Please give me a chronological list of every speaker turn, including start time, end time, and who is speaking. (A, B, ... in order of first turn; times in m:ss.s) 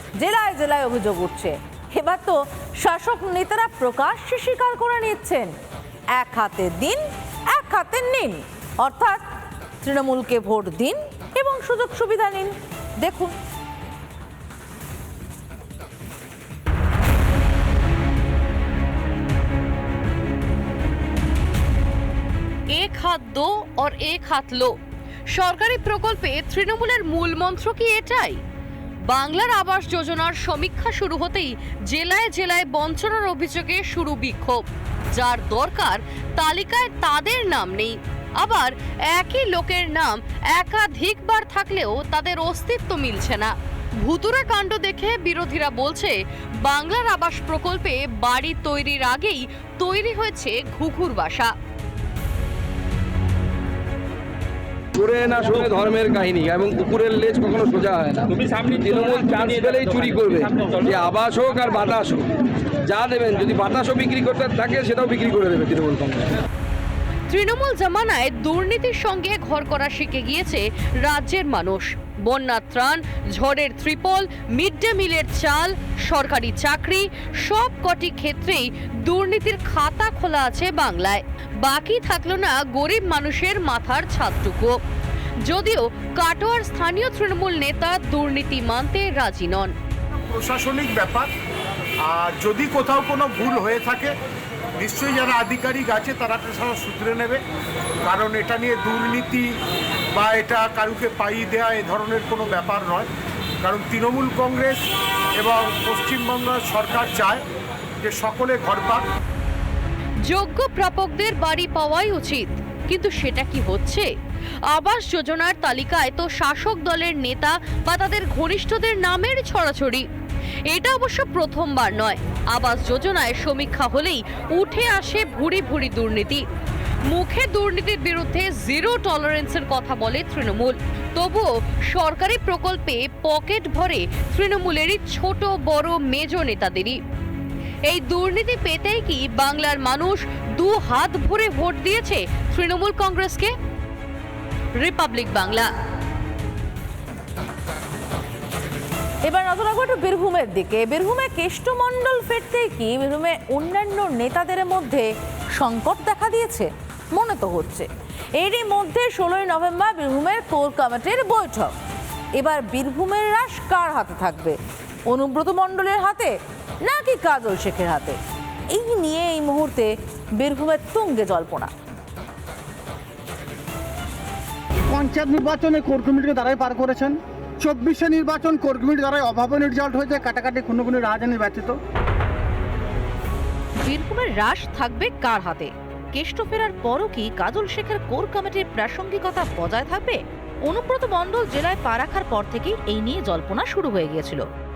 0:00.2-0:02.2 A
0:00.6-0:01.5 B
0:02.0-0:05.5 B
0:02.9-0:04.1 A
0:04.8-0:05.4 A
0:06.2-0:06.7 A
0:06.2-0:07.0 B
0:07.6-0:08.0 A
0:07.6-0:09.2 B
0:08.8-0:09.2 A
0:09.8-0:12.5 B
0:09.9-0:10.4 A
0:12.0-0:12.4 A
0:22.7-0:24.8 C
0:25.3-0:28.4 C
0:29.1-0:51.5 C
0:55.0-1:02.3 D
1:02.8-1:06.3 D
1:07.3-1:24.8 C
1:25.5-1:29.8 C
1:30.3-1:31.3 E
1:32.0-1:34.1 E
1:34.8-1:37.4 E
1:38.0-1:39.6 E
1:40.1-1:43.1 E
1:43.6-1:44.9 E
1:45.4-1:47.4 E
1:48.0-1:49.1 E
1:50.3-1:54.1 C
1:54.7-2:00.1 C
2:00.7-2:06.4 C
2:07.1-2:17.0 C
2:17.9-2:23.5 C
2:24.8-2:25.7 C
2:29.3-2:29.7 A
2:29.3-2:35.1 B
2:35.6-2:37.9 B
2:38.4-2:41.7 B
2:42.4-2:44.6 B
2:45.1-2:46.3 B
2:46.8-2:48.2 B
2:48.7-2:51.7 B
2:50.5-2:51.3 A
2:54.9-3:01.8 F
3:03.8-3:14.5 A